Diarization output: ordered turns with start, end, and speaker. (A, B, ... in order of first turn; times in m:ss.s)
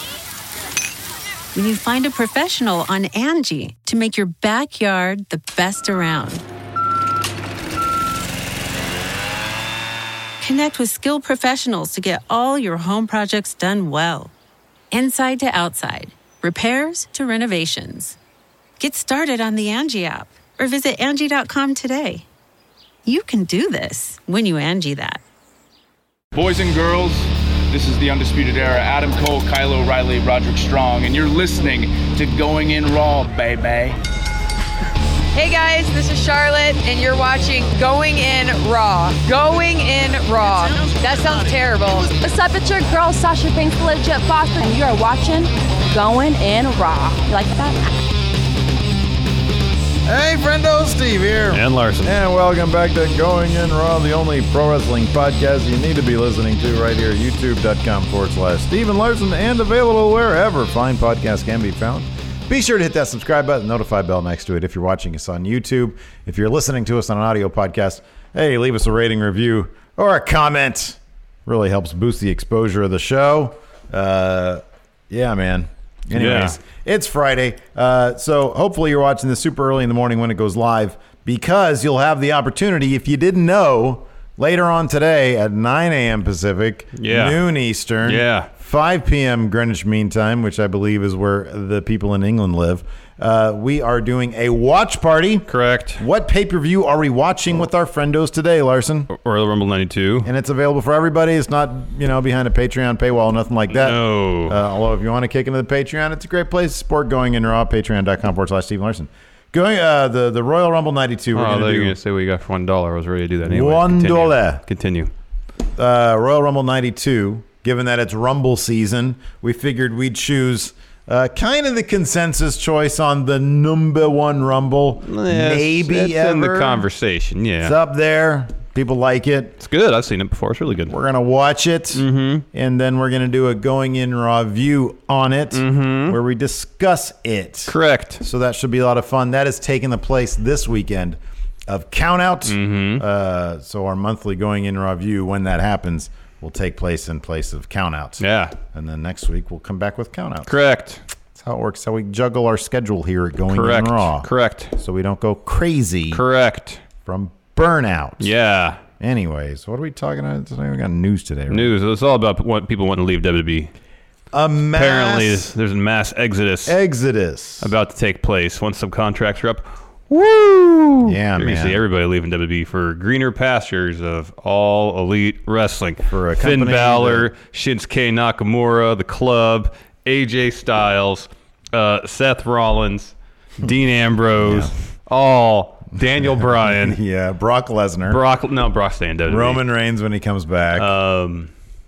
0:01.5-0:06.4 A
0:10.4-0:14.3 A
0:14.9-0:18.2 A
0:18.8-0:22.3 A
0:23.0-0:25.2 A
0:26.3-0:34.0 B
0:35.3-0:42.2 C
0:42.2-0:47.8 D
0:50.0-1:35.5 E
0:51.5-0:52.1 F
1:16.1-1:16.6 F
1:27.0-1:27.4 F
1:28.0-1:28.5 F
1:35.5-1:36.0 F
1:36.0-1:39.1 E
1:39.1-1:40.3 F
1:40.2-1:52.0 E
1:43.7-1:44.6 F
1:51.3-1:55.1 F
1:53.4-1:54.6 E
1:55.8-2:06.8 E
2:05.0-2:07.8 F
2:07.6-2:09.6 E
2:09.6-2:10.9 F
2:10.9-2:30.5 E
2:11.9-2:12.4 F
2:15.5-2:16.2 F
2:17.7-2:18.2 F
2:22.5-2:23.0 F
2:28.2-2:28.6 F
2:30.5-2:31.0 F
2:31.3-2:36.2 E
2:33.5-2:34.7 F
2:36.1-2:36.8 F
2:37.0-2:38.3 E
2:38.2-2:38.8 F
2:39.0-2:41.7 E
2:41.5-2:43.7 F
2:44.3-2:45.5 E
2:44.8-2:46.8 F
2:46.7-2:47.7 E
2:47.6-3:07.0 F
2:51.1-2:51.8 E
2:56.1-2:57.3 E
3:04.4-3:04.7 E
3:06.5-3:08.2 E
3:08.1-3:09.6 F
3:09.3-3:10.9 E
3:10.8-3:11.5 F